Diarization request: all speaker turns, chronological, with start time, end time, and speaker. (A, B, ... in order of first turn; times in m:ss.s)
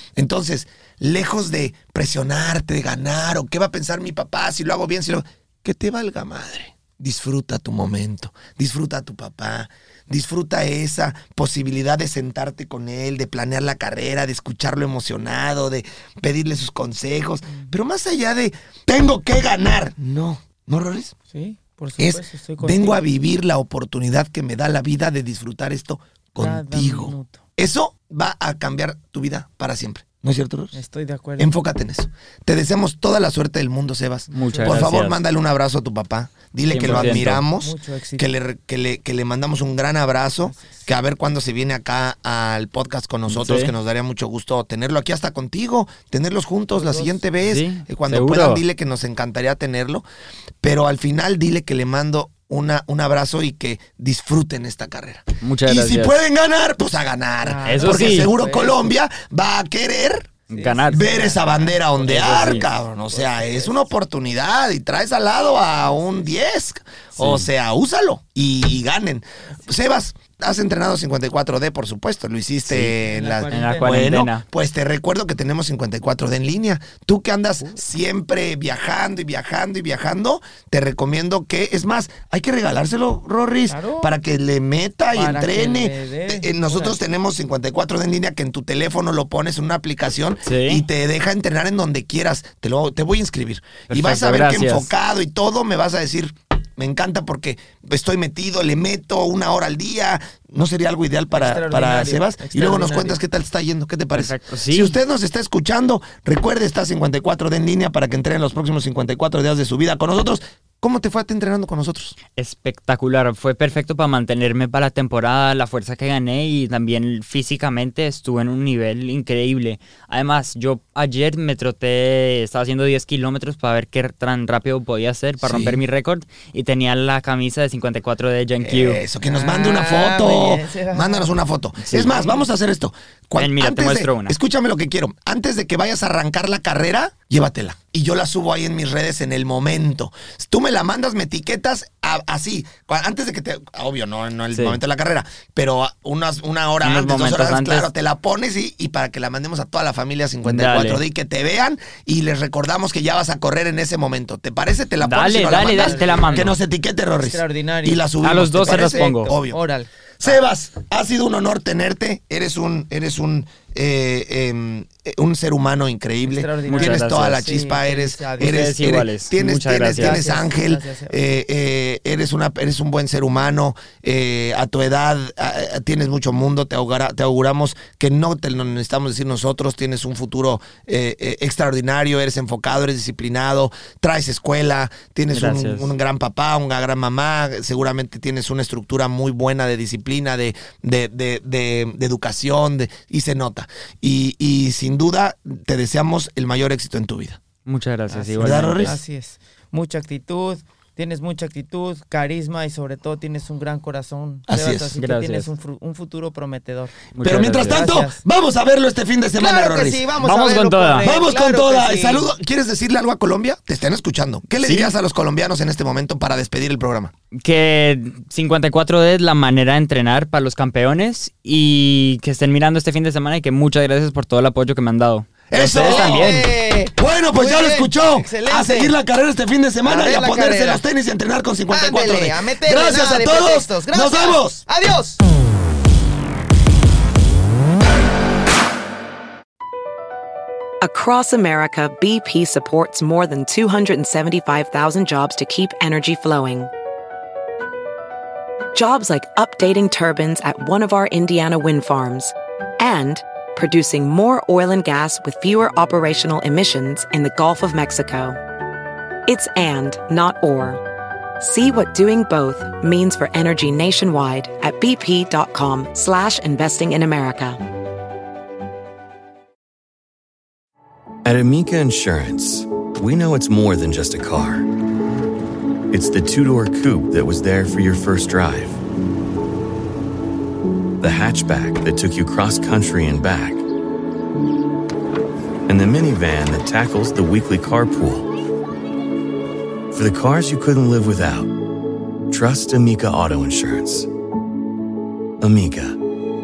0:00.2-0:21.1 A
0:17.5-0:17.7 B
0:21.3-0:23.0 B
0:22.0-0:30.8 A
0:26.4-0:27.4 B
0:30.7-0:31.6 B
0:31.4-0:50.0 A
0:34.3-0:34.9 B
0:34.3-0:35.2 C
0:36.7-0:37.4 C
0:36.8-0:38.3 B
0:40.4-0:40.9 B
0:43.3-0:43.7 C
0:46.7-0:47.2 B
0:47.4-0:48.6 C
0:50.6-1:00.3 A
0:55.4-0:56.2 C
0:57.4-0:58.9 B
0:57.6-0:58.3 C
1:00.5-1:01.1 C
1:00.5-1:03.9 B
1:00.9-1:52.2 A
1:02.0-1:02.6 C
1:05.9-1:06.2 B
1:07.1-1:07.5 C
1:12.7-1:13.0 C
1:13.0-1:14.2 B
1:13.5-1:14.4 C
1:23.7-1:24.1 B
1:25.1-1:27.0 B
1:30.4-1:30.8 C
1:33.9-1:34.9 C
1:41.3-1:43.2 B
1:44.1-1:45.0 C
1:52.4-2:09.0 C
2:05.4-2:05.8 A
2:08.6-2:39.6 A
2:09.2-2:11.3 B
2:11.8-2:12.1 C
2:12.0-2:12.4 B
2:13.4-2:14.4 C
2:24.5-2:24.8 C
2:26.8-2:27.9 C
2:30.4-2:31.0 C
2:35.0-2:36.5 C
2:35.5-2:36.6 B
2:37.2-2:40.4 B
2:38.2-2:39.3 C
2:40.2-3:17.4 A
2:46.2-2:48.7 B
2:46.6-2:47.5 C
2:48.4-2:50.2 C
2:49.9-2:51.2 B
3:05.3-3:05.9 C
3:17.6-3:19.0 C
3:18.1-3:27.0 B
3:18.4-3:19.0 A
3:24.5-3:25.0 A
3:25.0-3:25.5 C
3:27.1-3:27.9 C
3:27.2-3:30.0 A
3:27.6-3:28.2 B
3:29.4-3:32.3 B
3:30.2-3:31.1 C
3:31.0-3:37.1 A
3:34.6-3:34.9 C
3:37.3-3:46.5 C
3:45.5-3:54.6 A
3:45.7-3:49.0 B
3:49.8-3:50.8 B
3:51.7-3:55.2 B
4:00.8-4:06.7 D
4:08.7-4:18.4 D
4:19.3-4:20.8 D
4:21.4-4:27.6 D
4:31.2-4:34.6 E
4:35.9-4:38.8 E
4:41.0-4:43.6 E
4:45.7-4:48.3 E
4:49.9-4:51.5 E
4:52.3-4:54.1 E
4:55.4-4:56.0 E